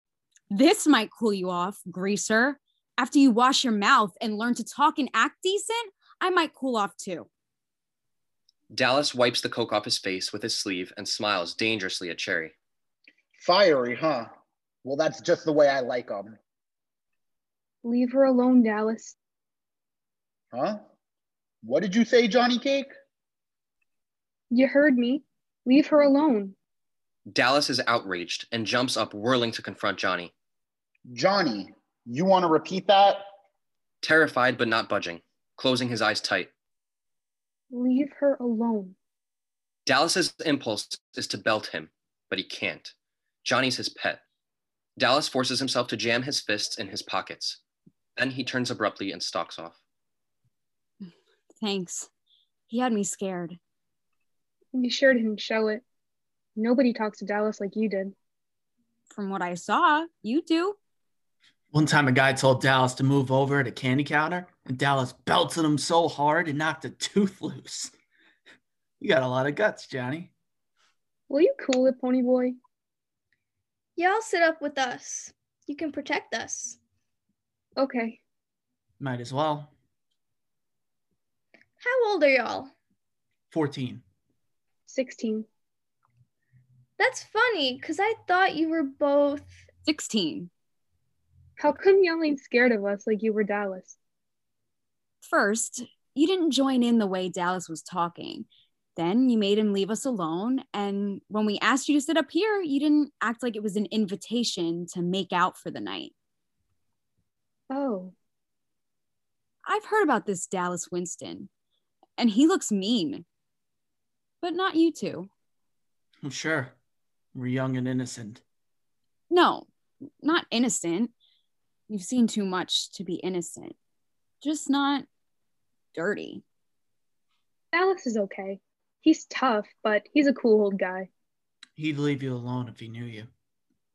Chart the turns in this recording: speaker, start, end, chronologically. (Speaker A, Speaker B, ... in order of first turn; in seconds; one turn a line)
Speaker A: 0.5-7.3
Speaker B: 8.7-12.5
Speaker C: 13.4-14.3
Speaker C: 14.8-16.4
Speaker D: 17.8-19.1
Speaker C: 20.5-20.8
Speaker C: 21.6-22.9
Speaker D: 24.5-26.6
Speaker B: 27.3-30.3
Speaker C: 31.1-33.3
Speaker B: 34.0-36.5
Speaker D: 37.7-38.9
Speaker B: 39.9-42.9
Speaker B: 43.4-44.2
Speaker B: 45.0-47.6
Speaker B: 48.1-49.8
Speaker A: 51.6-52.1
Speaker A: 52.7-53.6
Speaker D: 54.7-55.8
Speaker D: 56.6-58.1
Speaker A: 59.1-60.8
Speaker E: 61.7-67.9
Speaker E: 69.0-70.3
Speaker D: 71.3-72.6
Speaker F: 74.0-76.8
Speaker D: 77.8-78.2
Speaker E: 79.0-79.7
Speaker F: 81.8-82.7
Speaker E: 83.5-84.0
Speaker D: 84.9-85.5
Speaker F: 87.0-89.6
Speaker A: 89.8-90.5
Speaker D: 91.6-94.0
Speaker A: 95.2-106.1
Speaker D: 107.7-108.1
Speaker A: 109.6-111.5
Speaker A: 112.2-113.2
Speaker A: 114.4-115.3
Speaker E: 116.2-116.8
Speaker E: 117.3-118.4
Speaker A: 119.3-119.7
Speaker A: 120.2-121.1
Speaker A: 121.9-123.8
Speaker A: 124.4-125.1
Speaker A: 125.9-126.4
Speaker D: 127.7-131.1
Speaker E: 131.8-133.3